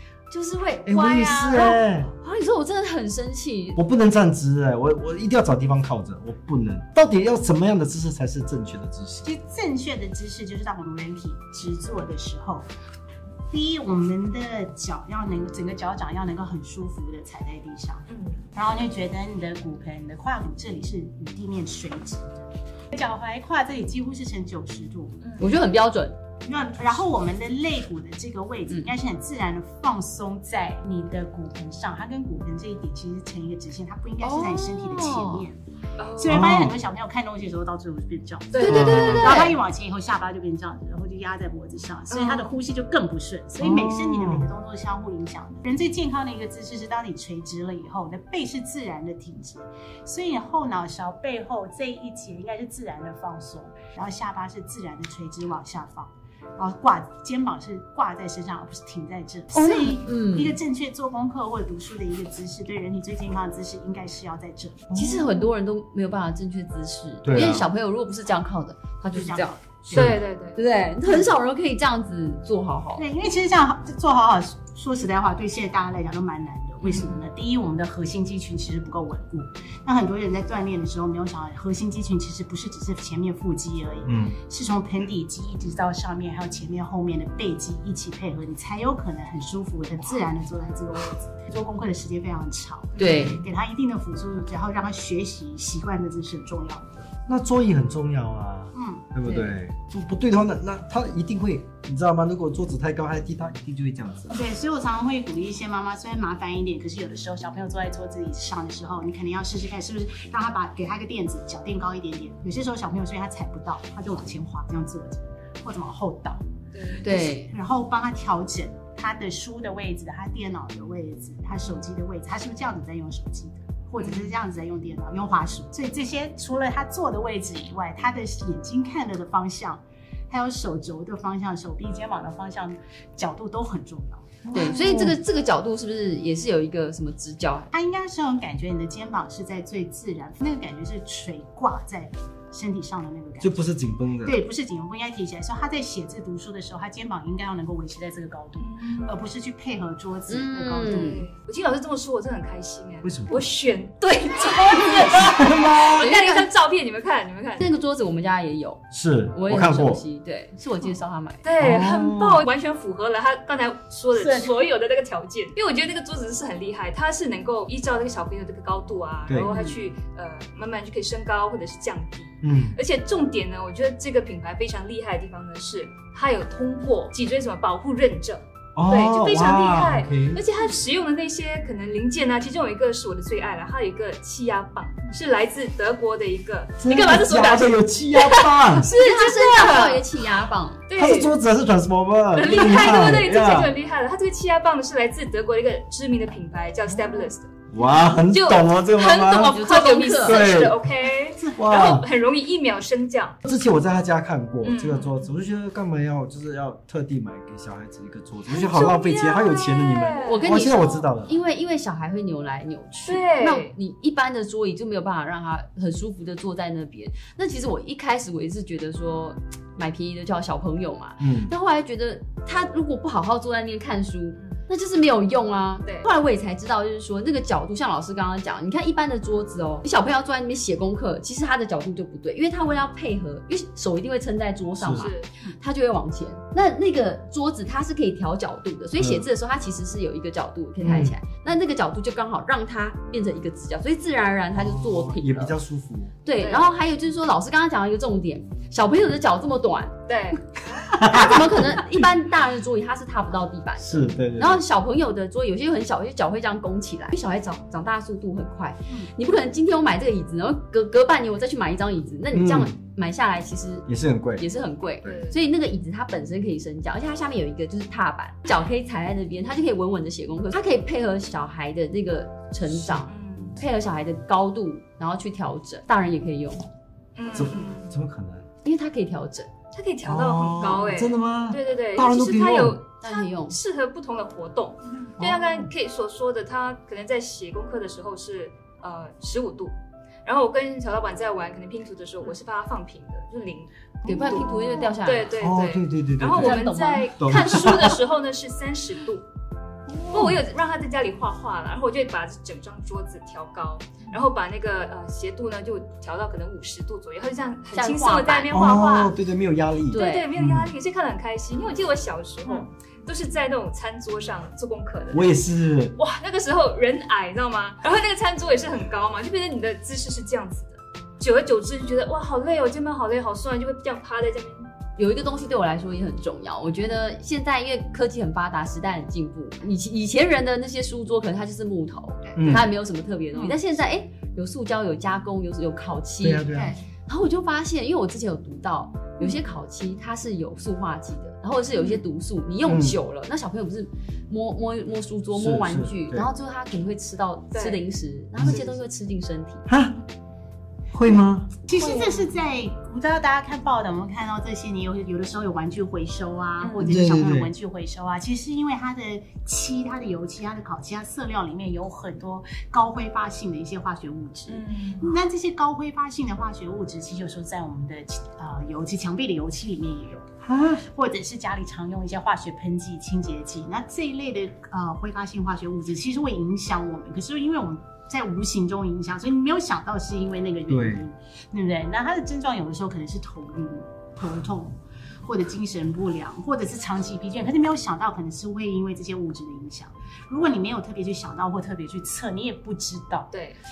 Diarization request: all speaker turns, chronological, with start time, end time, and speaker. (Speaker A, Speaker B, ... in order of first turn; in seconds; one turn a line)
Speaker A: 0.3-3.8
Speaker B: 0.8-2.1
Speaker B: 3.8-9.2
Speaker C: 9.2-12.7
Speaker C: 13.5-25.1
Speaker D: 18.1-18.5
Speaker D: 25.2-25.5
Speaker A: 25.4-26.1
Speaker C: 26.4-35.6
Speaker A: 34.2-35.4
Speaker D: 36.0-36.4
Speaker C: 36.1-64.8
Speaker B: 36.3-36.8
Speaker D: 38.5-39.6
Speaker B: 38.6-39.5
Speaker A: 38.7-39.5
Speaker D: 42.1-42.5
Speaker B: 43.6-44.5
Speaker A: 59.5-60.6
Speaker B: 64.9-65.3
Speaker A: 64.9-69.6
Speaker B: 67.2-67.7
Speaker C: 69.1-70.2
Speaker D: 69.9-70.6
Speaker B: 69.9-70.2
Speaker A: 70.5-73.0
Speaker C: 71.0-71.3
Speaker C: 73.0-97.1
Speaker D: 76.8-77.2
Speaker B: 84.1-84.3
Speaker A: 93.0-93.4
Speaker B: 97.3-104.3
Speaker C: 98.7-99.0
Speaker A: 99.2-99.6
Speaker C: 104.3-134.4
Speaker D: 116.7-117.1
Speaker A: 117.0-117.5
Speaker D: 124.0-124.3
Speaker B: 134.4-135.2
Speaker A: 134.5-137.7
Speaker C: 137.7-143.5
Speaker B: 143.4-144.4
Speaker C: 144.2-151.2
Speaker D: 148.6-149.2
Speaker A: 150.3-151.2
Speaker D: 150.8-157.7
Speaker B: 153.0-153.4
Speaker A: 154.9-156.5
Speaker B: 155.1-156.1
Speaker A: 157.6-161.4
Speaker B: 158.9-160.0
Speaker D: 161.4-190.2
Speaker B: 161.6-162.5
Speaker C: 164.1-164.6
Speaker B: 169.3-169.5
Speaker B: 172.4-172.8
Speaker B: 178.8-180.4
Speaker B: 186.8-188.9
Speaker A: 188.9-190.8
Speaker D: 190.9-191.3
Speaker B: 190.9-193.7
Speaker D: 192.3-197.5
Speaker C: 197.1-197.3
Speaker B: 197.7-200.8
Speaker D: 198.3-203.4
Speaker A: 199.0-200.4
Speaker C: 201.3-201.7
Speaker B: 201.6-202.1
Speaker B: 203.4-211.3
Speaker D: 204.6-205.3
Speaker D: 208.5-210.5
Speaker A: 210.2-245.6
Speaker D: 213.1-213.7
Speaker B: 221.2-221.5
Speaker B: 234.8-235.1
Speaker D: 234.9-235.3
Speaker B: 239.0-239.2
Speaker B: 240.8-241.1
Speaker B: 244.5-246.1
Speaker A: 246.2-249.9
Speaker D: 246.4-246.7
Speaker D: 250.1-250.4
Speaker B: 250.9-251.9
Speaker A: 251.0-263.9
Speaker B: 253.8-254.6
Speaker B: 262.3-262.7
Speaker B: 263.9-264.4
Speaker A: 264.4-276.7
Speaker B: 265.0-265.3
Speaker D: 265.0-265.4
Speaker D: 273.0-273.6
Speaker D: 277.2-277.9
Speaker B: 277.3-278.4
Speaker A: 278.6-279.5
Speaker D: 279.7-299.2
Speaker B: 280.0-282.8
Speaker A: 283.0-283.6
Speaker B: 285.2-285.7
Speaker A: 294.1-295.4
Speaker C: 294.1-294.9
Speaker B: 295.4-296.6
Speaker A: 296.3-297.8
Speaker B: 297.2-298.0
Speaker D: 300.1-309.2
Speaker B: 300.1-300.4
Speaker A: 307.7-308.5
Speaker B: 308.5-310.7
Speaker A: 309.9-310.3
Speaker D: 309.9-315.4
Speaker B: 315.1-315.9
Speaker D: 315.9-324.7
Speaker A: 324.9-336.5
Speaker C: 332.2-332.6
Speaker B: 332.4-332.7
Speaker B: 336.2-336.8
Speaker C: 336.5-336.8
Speaker A: 337.1-349.6
Speaker B: 342.7-343.0
Speaker B: 345.3-346.3
Speaker D: 347.5-347.8
Speaker B: 348.3-348.6
Speaker B: 349.7-350.0
Speaker B: 350.9-351.5
Speaker C: 351.7-370.3
Speaker D: 351.8-352.1
Speaker D: 356.6-356.9
Speaker B: 356.8-357.5
Speaker D: 364.5-365.2
Speaker B: 370.4-370.8
Speaker C: 370.8-393.3
Speaker B: 380.7-381.1
Speaker D: 393.3-393.6